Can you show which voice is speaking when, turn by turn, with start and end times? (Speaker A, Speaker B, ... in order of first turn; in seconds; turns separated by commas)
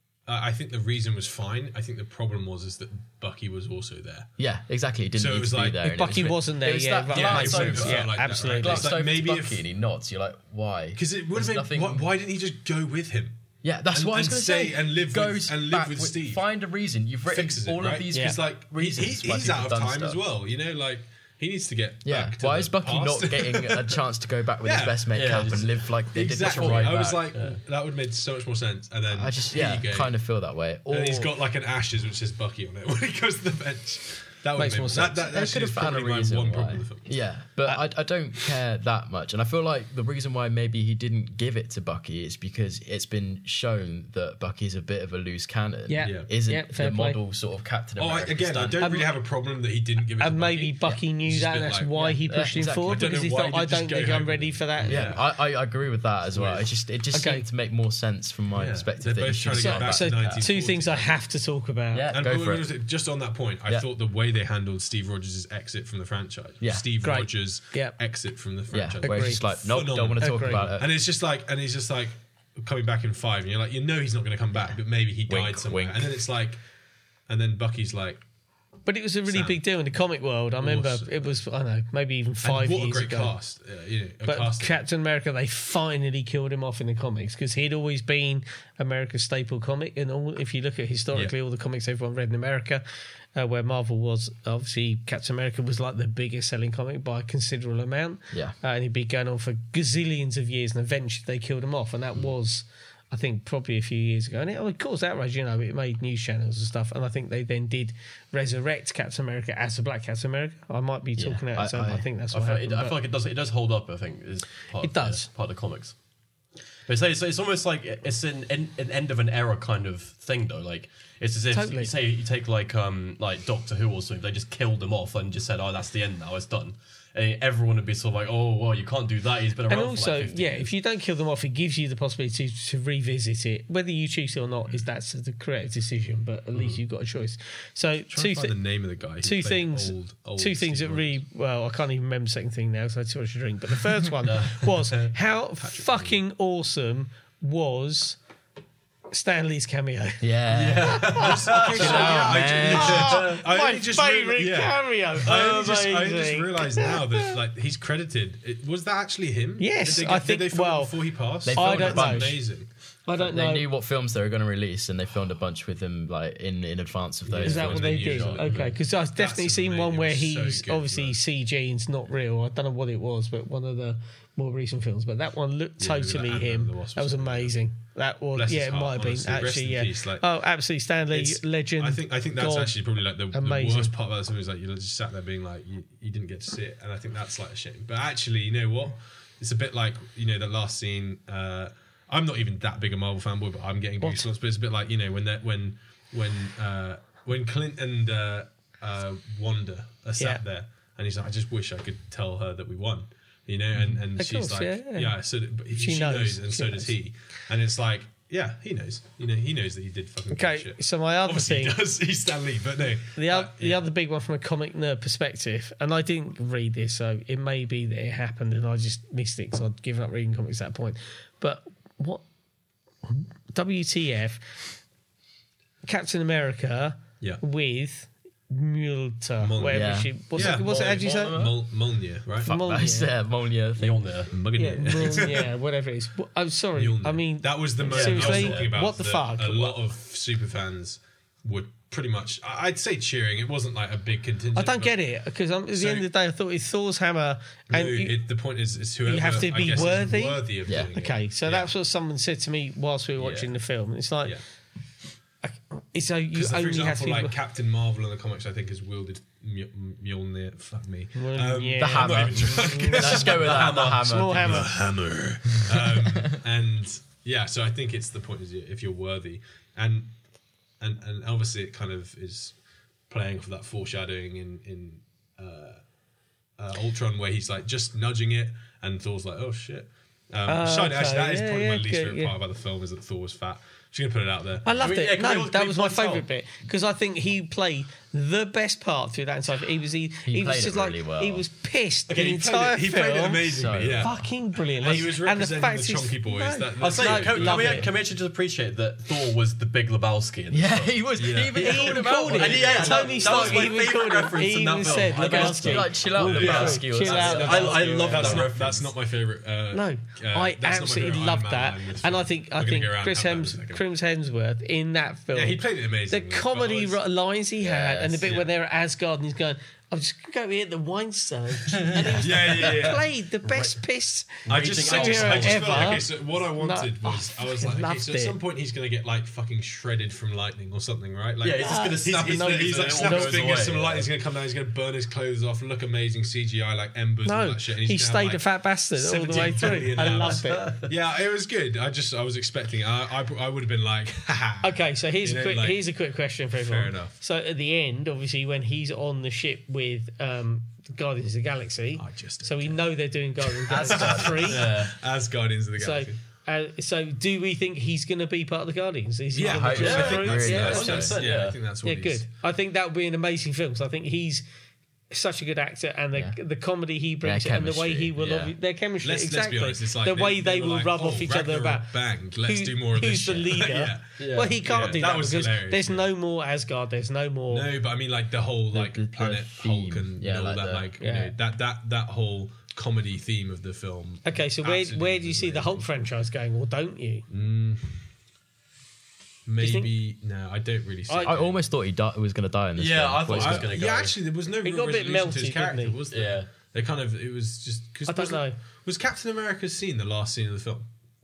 Speaker A: 0.3-4.3, Speaker B: 4.4-12.1, Speaker A: 5.1-5.9, Speaker C: 5.8-9.0, Speaker A: 7.1-9.6, Speaker A: 10.9-16.4, Speaker B: 13.6-20.2, Speaker A: 17.3-24.0, Speaker C: 18.1-18.4, Speaker B: 22.0-27.2, Speaker A: 24.6-25.1, Speaker D: 25.1-27.6, Speaker A: 26.1-30.1, Speaker B: 29.1-31.3, Speaker A: 30.9-37.1, Speaker C: 34.6-35.2, Speaker B: 35.2-49.0, Speaker C: 45.9-47.2, Speaker A: 46.0-46.3, Speaker A: 48.0-52.1, Speaker C: 48.8-49.2, Speaker C: 50.2-55.2, Speaker B: 52.0-53.1, Speaker A: 52.8-55.2, Speaker D: 53.9-54.1, Speaker B: 54.8-60.5, Speaker A: 56.3-56.7, Speaker C: 57.1-57.5, Speaker D: 58.5-58.9, Speaker A: 59.0-61.2, Speaker C: 59.5-62.1, Speaker B: 61.9-62.7, Speaker A: 62.1-76.6, Speaker B: 66.6-66.9, Speaker C: 67.0-68.0, Speaker B: 68.7-70.9, Speaker C: 69.0-69.5, Speaker C: 70.2-70.7, Speaker B: 75.3-76.1, Speaker A: 77.3-78.2, Speaker C: 78.9-83.3, Speaker A: 79.3-79.6, Speaker A: 80.6-81.3, Speaker A: 82.4-84.8, Speaker C: 84.2-92.8, Speaker C: 93.3-113.0, Speaker B: 111.2-112.1, Speaker D: 112.3-116.0, Speaker C: 114.8-115.3, Speaker D: 116.9-130.7, Speaker C: 121.5-121.9, Speaker C: 129.7-138.6, Speaker A: 138.1-141.2, Speaker C: 139.2-148.2, Speaker D: 144.2-145.1, Speaker A: 145.6-146.2, Speaker C: 149.1-150.2, Speaker B: 150.2-153.2, Speaker D: 150.5-153.4, Speaker C: 150.8-157.3, Speaker A: 151.1-162.7, Speaker C: 159.6-161.0, Speaker B: 161.4-162.4, Speaker C: 161.5-162.4, Speaker C: 163.1-163.7, Speaker B: 163.2-168.4, Speaker A: 167.3-168.5, Speaker D: 167.4-168.8, Speaker C: 167.4-182.8, Speaker A: 169.2-171.2, Speaker A: 175.8-177.6, Speaker A: 178.3-180.3, Speaker A: 181.1-213.9, Speaker C: 183.3-183.9, Speaker C: 194.0-194.3, Speaker C: 204.2-205.2, Speaker C: 205.7-207.0, Speaker C: 210.3-211.8, Speaker C: 213.2-222.2, Speaker C: 223.0-224.6, Speaker C: 225.8-231.5, Speaker A: 229.4-232.8, Speaker B: 229.7-231.6, Speaker C: 232.4-233.1, Speaker B: 232.5-234.2, Speaker D: 233.8-234.3, Speaker A: 234.3-235.5, Speaker C: 234.6-239.8, Speaker A: 236.8-244.9, Speaker D: 237.8-238.7, Speaker C: 244.6-248.2, Speaker A: 245.7-246.1, Speaker A: 247.7-251.7, Speaker C: 249.1-254.4, Speaker B: 250.7-250.9, Speaker C: 255.4-257.4, Speaker A: 256.3-270.1, Speaker C: 261.1-264.7, Speaker B: 261.8-264.7, Speaker B: 265.5-266.4, Speaker A: 270.8-272.6, Speaker A: 273.1-275.8, Speaker A: 276.6-284.9, Speaker C: 280.5-282.3, Speaker C: 284.6-297.9, Speaker D: 284.8-286.3, Speaker B: 290.2-291.4, Speaker A: 292.1-294.2, Speaker B: 293.5-294.2, Speaker A: 294.8-297.9, Speaker D: 294.9-295.1, Speaker D: 296.8-301.5, Speaker B: 300.5-303.0, Speaker A: 301.2-303.8, Speaker C: 301.6-308.5, Speaker D: 302.3-308.9, Speaker B: 305.1-307.7, Speaker A: 306.2-313.8, Speaker C: 309.7-328.4, Speaker A: 315.3-317.0, Speaker B: 317.6-318.4, Speaker A: 322.2-323.1, Speaker D: 323.4-323.8, Speaker D: 324.4-326.1, Speaker A: 324.5-345.8, Speaker D: 331.4-334.1, Speaker C: 331.6-333.6, Speaker C: 337.2-340.7, Speaker D: 339.4-340.9, Speaker C: 344.6-354.7, Speaker A: 346.6-347.1, Speaker A: 352.0-352.8, Speaker A: 353.7-356.2, Speaker D: 353.7-354.9, Speaker B: 353.8-354.4, Speaker C: 355.8-364.4, Speaker B: 359.3-361.2, Speaker A: 359.4-362.2, Speaker D: 359.7-361.6, Speaker C: 365.1-371.9, Speaker B: 367.2-368.5, Speaker A: 369.0-376.1, Speaker C: 372.4-377.7, Speaker D: 374.2-374.6, Speaker A: 377.5-385.9, Speaker B: 378.7-380.9, Speaker C: 381.0-381.3, Speaker C: 384.2-387.3, Speaker A: 387.3-388.0, Speaker A: 389.5-391.6, Speaker C: 389.6-389.9, Speaker C: 391.1-391.4, Speaker B: 391.2-393.7, Speaker D: 392.8-394.1, Speaker A: 393.4-400.9, Speaker C: 394.6-396.0, Speaker D: 396.1-396.5, Speaker C: 398.1-398.6